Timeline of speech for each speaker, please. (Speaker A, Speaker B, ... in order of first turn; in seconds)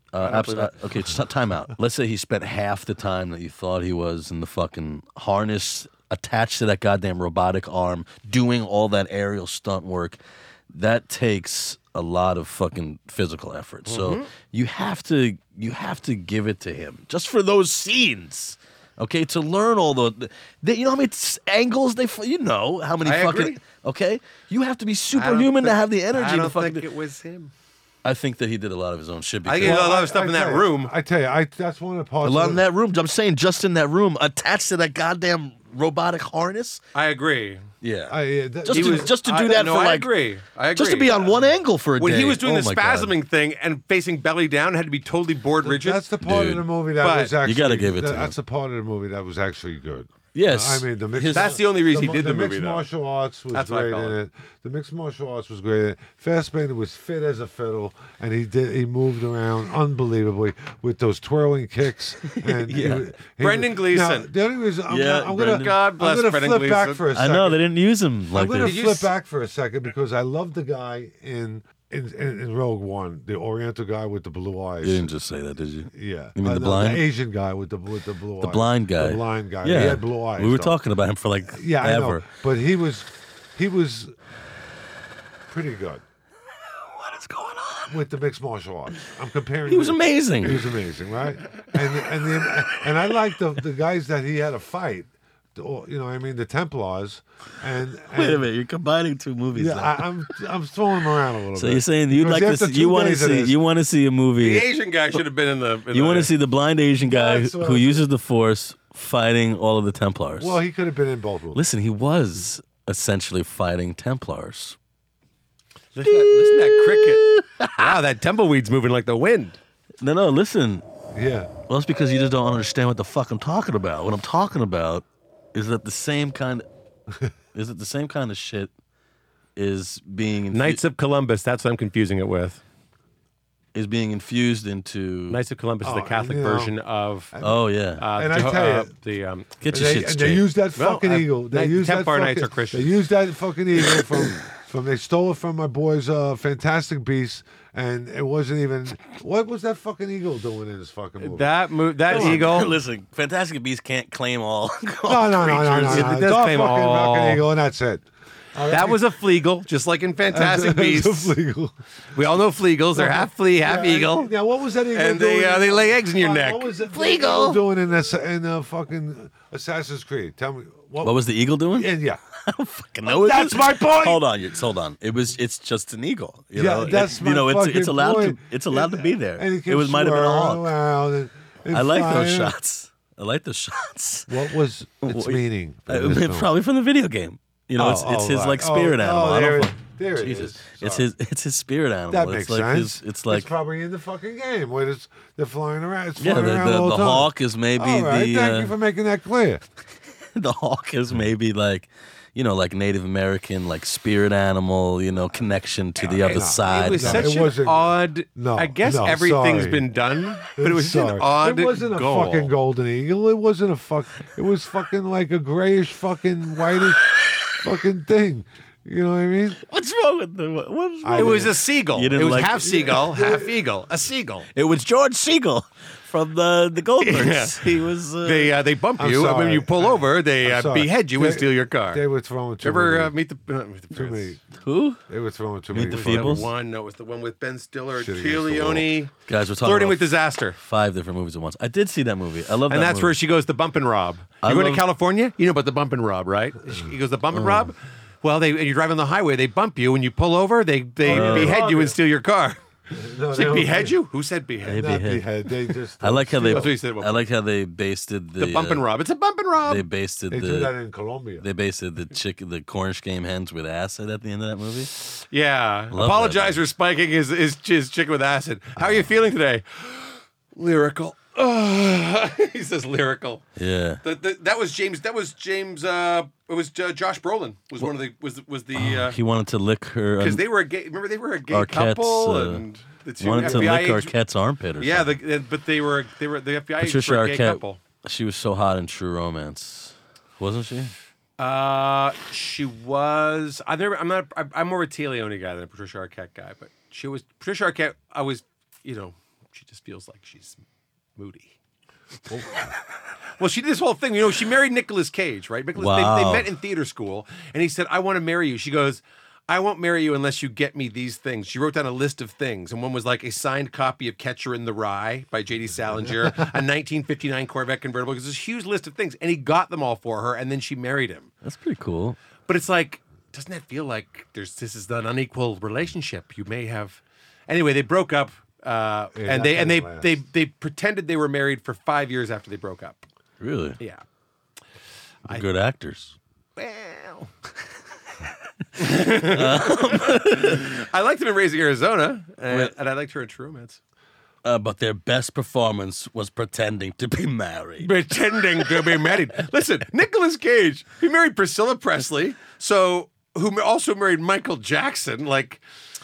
Speaker A: 0.1-26.8, 28.0-29.9, 32.2-36.8, 37.8-40.1, 40.7-43.1, 46.2-46.7, 47.4-48.3, 50.3-51.6, 62.3-63.1, 64.9-65.7, 67.1-68.8, 74.8-77.0, 78.4-82.2, 86.7-88.0, 89.7-90.7, 98.1-100.1, 101.5-105.2, 105.9-110.6, 111.5-114.8, 116.0-117.9, 120.0-120.8, 121.7-126.7, 127.5-128.7, 129.6-130.8, 133.7-135.4, 137.4-138.0, 139.6-140.5, 152.1-156.1, 171.0-180.7, 181.7-184.4, 185.0-193.5, 196.2-198.7, 200.3-207.4, 219.6-222.9, 224.5-228.5, 234.6-235.0, 235.7-236.5, 239.3-243.2, 244.4-244.8, 247.3-247.7, 251.0-251.6, 254.6-255.3, 256.0-258.9, 259.6-260.8, 261.4-264.9, 265.9-266.6, 273.6-274.0, 278.7-280.4, 281.5-282.6, 283.2-285.1, 286.8-290.9, 305.8-306.5, 321.4-322.2, 333.4-333.8, 335.3-336.1, 338.8-340.7, 342.5-342.7, 344.4-347.9
Speaker B: 0.2-0.8, 13.9-14.3, 23.0-23.6, 25.1-27.5, 29.4-30.9, 36.9-37.6, 38.7-46.0, 47.0-47.3, 51.3-52.9, 53.5-54.2, 63.2-64.3, 65.3-67.0, 68.4-69.1, 104.4-106.3, 115.9-117.2, 117.8-119.6, 130.5-132.6, 135.3-137.3, 138.0-139.6, 140.8-142.9, 151.2-152.8, 155.5-157.4, 158.7-161.3, 162.1-164.3, 164.9-167.6, 206.2-212.5, 221.1-224.5, 227.0-232.0, 232.6-234.4, 235.8-240.6, 242.7-252.6, 253.3-255.0, 256.4-257.3, 258.4-259.9, 264.9-273.4, 274.0-279.2, 280.2-284.1, 284.8-287.8, 291.4-300.6, 301.2-301.5, 303.4-321.3, 322.5-333.0, 336.6-337.3, 338.8-343.8, 347.8-355.6
Speaker C: 29.6-32.6, 38.1-39.1, 45.6-67.6, 68.3-75.1, 75.9-80.8, 81.5-84.1, 85.5-86.0, 87.9-98.5, 99.5-103.6, 107.0-108.0, 110.4-111.6, 121.1-121.5, 135.8-136.7, 137.3-138.9, 139.7-151.5, 152.1-152.7, 155.0-159.0, 160.3-161.7, 162.9-172.2, 173.0-174.2, 176.5-182.5, 184.3-186.5, 187.8-191.1, 192.1-199.6, 206.0-209.8, 210.6-219.6, 221.0-221.6, 222.6-223.6, 229.0-233.1, 233.9-234.4, 235.1-236.5, 237.9-238.9, 251.0-252.0, 252.9-254.0, 254.7-256.8, 260.3-261.4, 283.3-283.9, 302.3-302.7, 329.1-330.2